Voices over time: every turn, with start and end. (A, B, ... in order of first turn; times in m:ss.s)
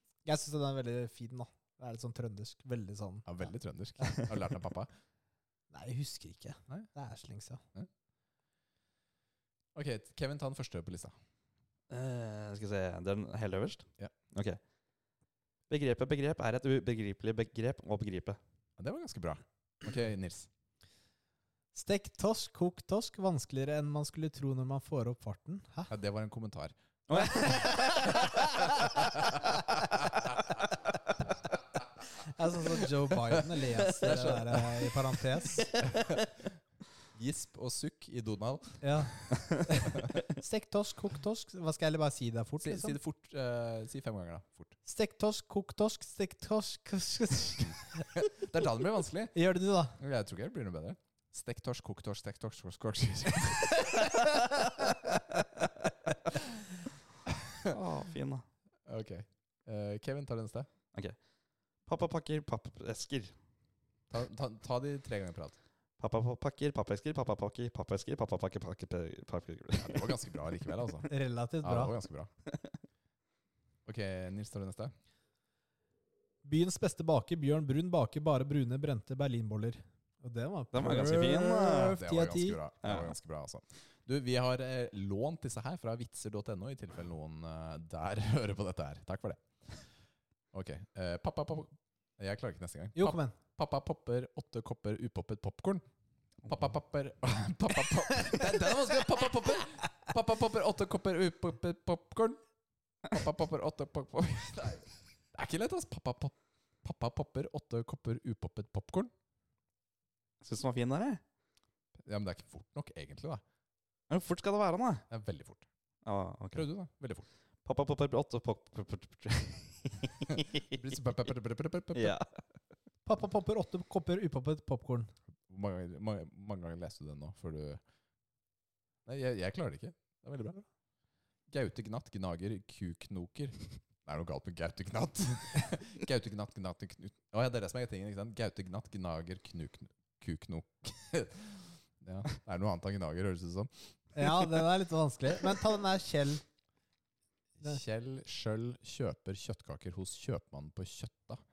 0:00.2-0:03.3 A
0:03.3-0:04.9 B
0:05.7-0:07.6 A
0:09.7-0:11.1 B
0:11.9-0:14.6 C
0:15.7-0:18.4 C
0:18.8-0:20.5 B
0:21.7-0:25.9 A
0:25.9-0:26.7 B
0:27.1-0:28.3 C
0:27.1-0:29.4 A
0:28.8-0:30.6 B
0:32.2-0:35.7 A
0:33.9-0:34.6 B
0:34.0-0:34.6 C
0:35.8-0:36.2 B
0:37.1-0:39.4 B
0:38.8-0:43.0 A
0:39.9-0:40.1 B
0:42.6-0:44.7 B
0:44.9-0:48.2 A
0:48.1-0:49.4 B
0:49.3-0:50.0 A
0:50.0-0:55.4 B
0:57.3-0:57.8 B
0:57.7-0:58.4 C
0:58.9-1:00.7 B
1:01.9-1:03.4 C
1:04.1-1:05.6 B
1:06.0-1:10.2 C
1:09.8-1:11.1 B
1:11.1-1:11.9 A
1:11.6-1:12.3 B
1:13.9-1:14.9 B
1:16.4-1:22.6 A
1:20.7-1:22.0 C
1:21.9-1:29.8 B
1:22.8-1:23.1 C
1:30.5-1:35.8 B
1:33.0-1:33.4 A
1:36.4-1:42.4 B
1:43.0-1:49.1 B
1:50.4-1:51.2 C
1:52.0-1:53.4 B
1:54.1-1:55.0 C
1:55.1-1:55.7 B
1:56.0-1:56.7 C
1:56.5-1:57.3 B
1:57.6-2:00.8 C
2:00.4-2:02.2 B
2:01.9-2:02.3 C
2:03.1-2:05.1 A
2:05.5-2:07.8 B
2:09.1-2:10.6 B
2:11.5-2:23.7 B
2:24.2-2:26.4 A
2:27.6-2:31.4 B